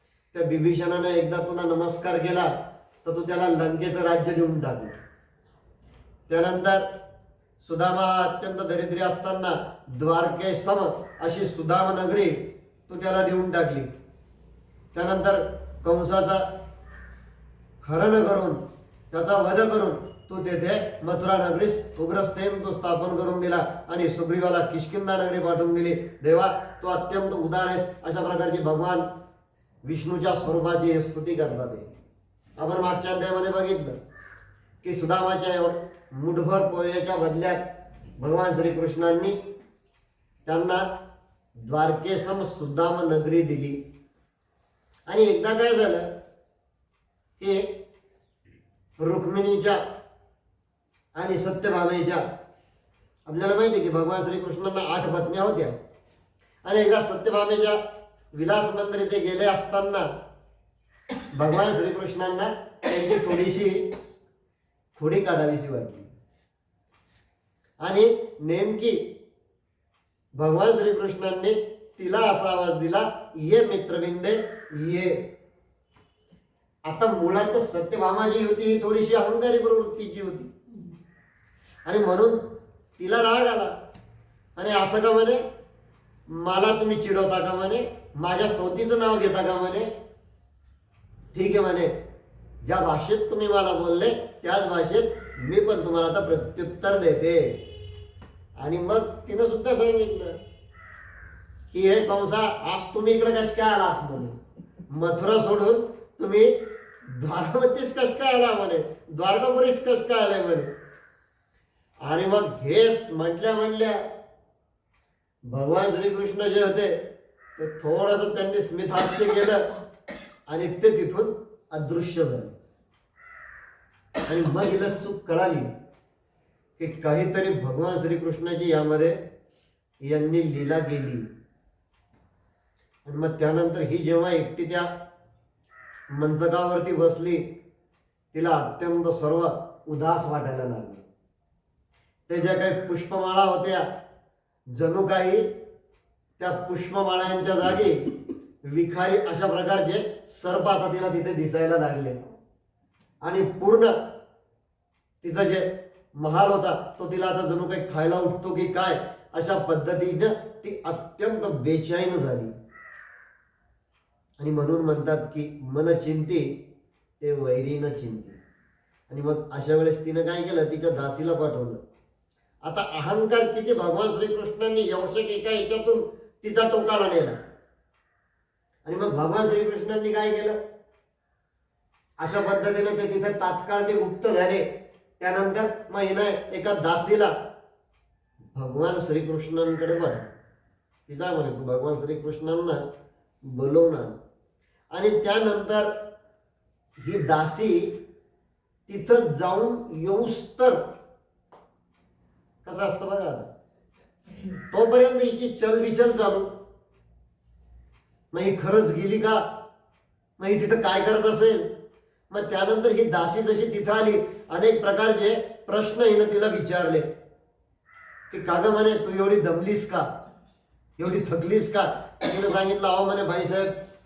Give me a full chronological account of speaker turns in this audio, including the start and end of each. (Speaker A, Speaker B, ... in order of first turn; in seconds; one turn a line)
Speaker A: 0.3-2.5
Speaker A: 3.0-5.0
Speaker A: 6.3-6.8
Speaker A: 7.6-13.9
Speaker A: 14.9-16.5
Speaker A: 17.8-29.1
Speaker A: 29.8-31.9
Speaker A: 32.6-34.0
Speaker A: 34.8-37.6
Speaker A: 38.2-39.4
Speaker A: 40.5-40.9
Speaker A: 41.6-43.8
Speaker A: 45.1-46.1
Speaker A: 47.4-47.7
Speaker A: 49.0-49.8
Speaker A: 51.1-52.2
Speaker A: 53.3-55.8
Speaker A: 56.6-57.8
Speaker A: 58.3-60.1
Speaker A: 61.3-63.9
Speaker A: 65.0-66.1
Speaker A: 67.8-69.0
Speaker A: 70.4-75.3
Speaker A: 76.8-80.5
Speaker A: 81.8-82.4
Speaker A: 83.0-83.7
Speaker A: 84.6-85.4
Speaker A: 86.3-89.9
Speaker A: 91.3-91.9
Speaker A: 92.6-97.6
Speaker A: 98.6-100.4
Speaker A: 101.7-104.4
Speaker A: 104.9-106.5
Speaker A: 107.1-110.7
Speaker A: 112.0-114.0
Speaker A: 115.5-117.0
Speaker A: 117.6-119.6
Speaker A: 120.5-122.6
Speaker A: 124.3-125.7
Speaker A: 126.8-129.2
Speaker A: 130.0-131.3
Speaker A: 133.1-134.9
Speaker A: 136.1-137.5
Speaker A: 138.3-141.1
Speaker A: 142.3-143.9
Speaker A: 144.7-145.5
Speaker A: 146.4-148.0
Speaker A: 148.6-152.2
Speaker A: 153.2-154.0
Speaker A: 155.2-162.5
Speaker A: 164.4-166.5
Speaker A: 167.2-168.4
Speaker A: 169.1-171.8
Speaker A: 172.6-177.4
Speaker A: 178.8-180.6
Speaker A: 182.2-184.7
Speaker A: 185.2-187.3
Speaker A: 188.6-190.3
Speaker A: 191.1-192.8
Speaker A: 193.4-194.2
Speaker A: 194.9-195.9
Speaker A: 197.0-198.0
Speaker A: 198.9-200.8
Speaker A: 202.6-203.5
Speaker A: 204.7-206.5
Speaker A: 208.3-209.5
Speaker A: 210.4-211.7
Speaker A: 212.3-217.1
Speaker A: 218.3-220.1
Speaker A: 221.0-223.7